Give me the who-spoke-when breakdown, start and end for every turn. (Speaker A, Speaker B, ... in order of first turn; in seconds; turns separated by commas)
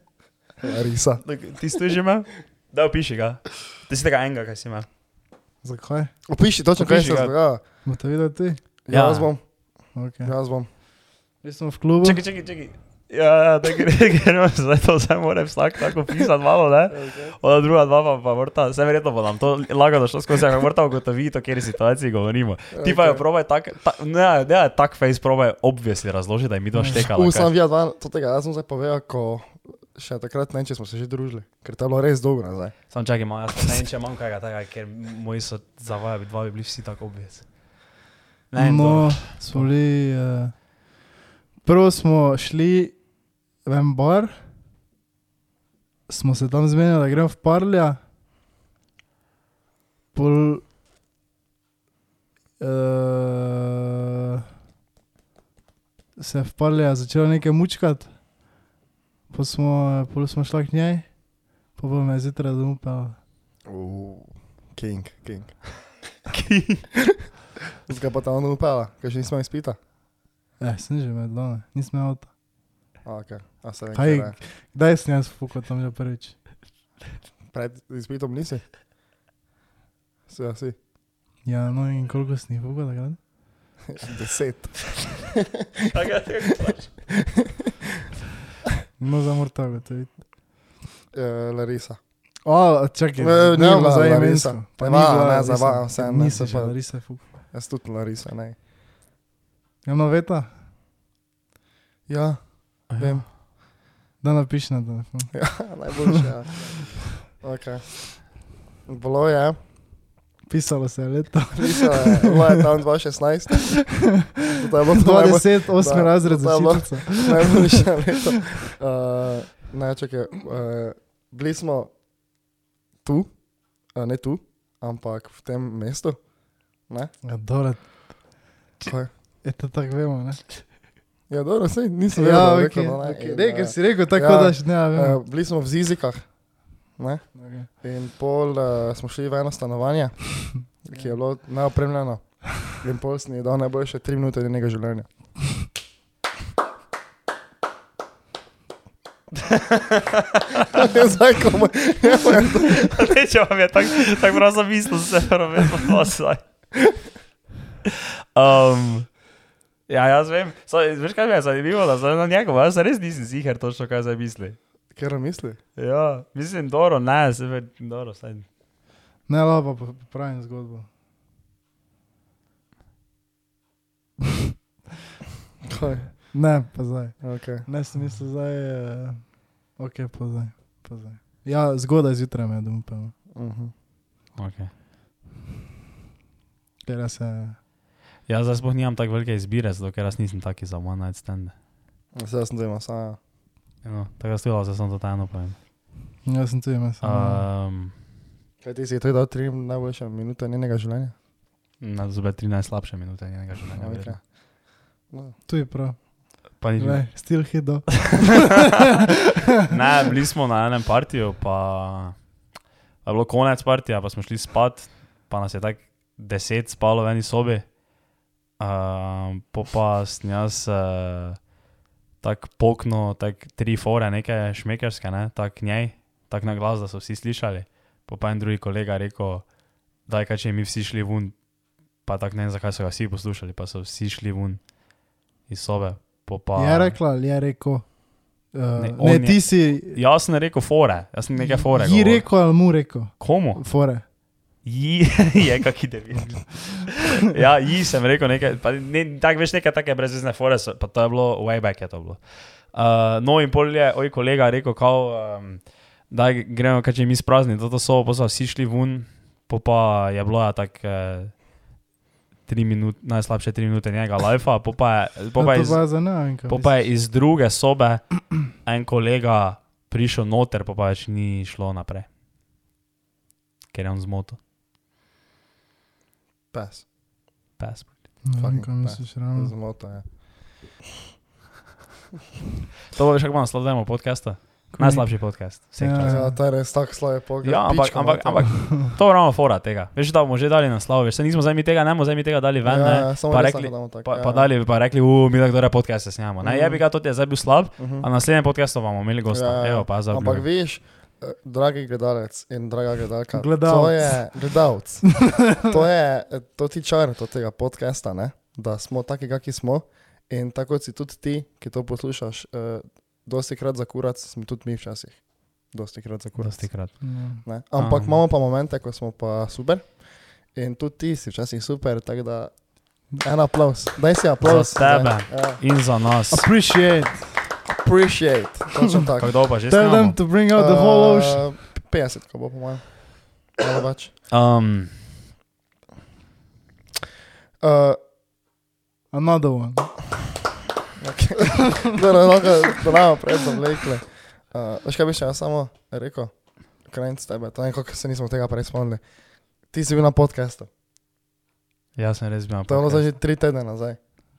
Speaker A: 0.6-1.2, Speaker B: 1.2-4.9, Speaker C: 5.6-6.1, Speaker A: 6.3-7.6, Speaker B: 6.8-7.3, Speaker C: 7.8-8.6, Speaker A: 8.8-9.4, Speaker B: 8.9-9.3, Speaker C: 9.9-10.3, Speaker A: 10.2-10.7, Speaker C: 11.4-12.2, Speaker B: 12.0-27.5, Speaker A: 16.9-17.4, Speaker A: 22.7-23.2, Speaker C: 26.8-27.0, Speaker A: 26.9-32.8, Speaker B: 32.9-37.5, Speaker B: 38.5-39.7, Speaker C: 38.6-40.6, Speaker C: 41.6-43.0, Speaker C: 43.6-44.5, Speaker C: 46.1-48.0, Speaker C: 50.1-50.6, Speaker C: 52.6-54.4, Speaker C: 56.2-58.1, Speaker C: 59.3-61.2, Speaker C: 61.8-63.2, Speaker A: 63.7-65.8, Speaker B: 66.3-66.9, Speaker A: 67.8-69.8, Speaker C: 70.6-72.3, Speaker A: 73.0-74.4, Speaker C: 73.9-76.5, Speaker A: 77.5-78.6, Speaker A: 80.3-80.8, Speaker C: 81.5-83.2, Speaker A: 83.9-85.9, Speaker B: 85.9-86.9, Speaker A: 87.1-87.7, Speaker C: 89.0-90.2, Speaker A: 91.1-92.0, Speaker C: 92.5-97.2, Speaker A: 93.2-98.6, Speaker C: 99.8-100.5, Speaker A: 102.1-103.3, Speaker B: 102.9-103.2, Speaker C: 104.2-106.2, Speaker A: 105.3-108.2, Speaker A: 108.9-109.6, Speaker C: 110.5-112.6, Speaker A: 111.6-121.9, Speaker C: 113.8-117.9, Speaker A: 123.0-123.4, Speaker A: 123.9-126.2, Speaker C: 127.2-128.3, Speaker A: 128.9-129.1, Speaker C: 129.4-130.6, Speaker A: 131.3-136.3, Speaker C: 132.1-135.2, Speaker A: 137.0-145.1, Speaker C: 137.3-137.7, Speaker B: 149.5-150.9, Speaker A: 150.7-153.0, Speaker B: 152.6-156.4, Speaker B: 157.9-159.1, Speaker B: 159.9-164.6, Speaker A: 164.9-165.6, Speaker B: 165.8-168.5, Speaker C: 169.3-170.9, Speaker A: 175.7-176.3, Speaker C: 176.3-183.1, Speaker A: 177.2-177.7, Speaker A: 183.3-183.7, Speaker B: 184.4-184.7, Speaker C: 186.8-187.6, Speaker B: 188.3-191.6, Speaker A: 192.1-193.2, Speaker B: 193.8-195.6, Speaker C: 196.2-197.5, Speaker B: 197.0-198.0, Speaker A: 198.6-201.1, Speaker B: 201.8-204.2, Speaker A: 203.8-204.3, Speaker A: 205.1-205.4, Speaker C: 205.5-208.7, Speaker B: 206.6-207.3, Speaker B: 209.6-212.3, Speaker B: 213.0-217.8, Speaker B: 218.6-221.4, Speaker B: 222.2-229.5, Speaker B: 230.1-231.4, Speaker B: 232.0-234.7, Speaker B: 235.5-237.0, Speaker C: 236.6-240.0, Speaker B: 238.8-242.5, Speaker C: 241.4-244.0, Speaker B: 243.2-243.6, Speaker B: 244.6-261.4, Speaker B: 262.5-272.1, Speaker C: 265.4-266.8, Speaker B: 273.7-274.4, Speaker A: 276.5-276.9, Speaker B: 277.6-278.0, Speaker C: 278.2-279.5, Speaker A: 278.4-280.1, Speaker B: 282.9-286.3, Speaker C: 284.7-286.4, Speaker A: 286.0-288.5, Speaker B: 287.4-300.5, Speaker A: 292.6-294.5, Speaker A: 296.4-296.8, Speaker A: 297.8-298.1, Speaker A: 299.3-316.9, Speaker C: 303.4-304.3, Speaker C: 305.3-305.6, Speaker B: 316.4-317.1, Speaker C: 317.0-317.4, Speaker A: 317.4-325.6, Speaker B: 317.8-318.2, Speaker B: 324.4-326.5, Speaker C: 326.3-327.4, Speaker A: 327.6-329.3, Speaker B: 329.2-330.2, Speaker C: 329.7-331.6, Speaker A: 330.5-334.1, Speaker B: 334.3-335.1, Speaker A: 337.6-338.0, Speaker C: 339.1-340.1, Speaker A: 341.0-350.7, Speaker B: 352.0-353.1, Speaker A: 352.7-354.0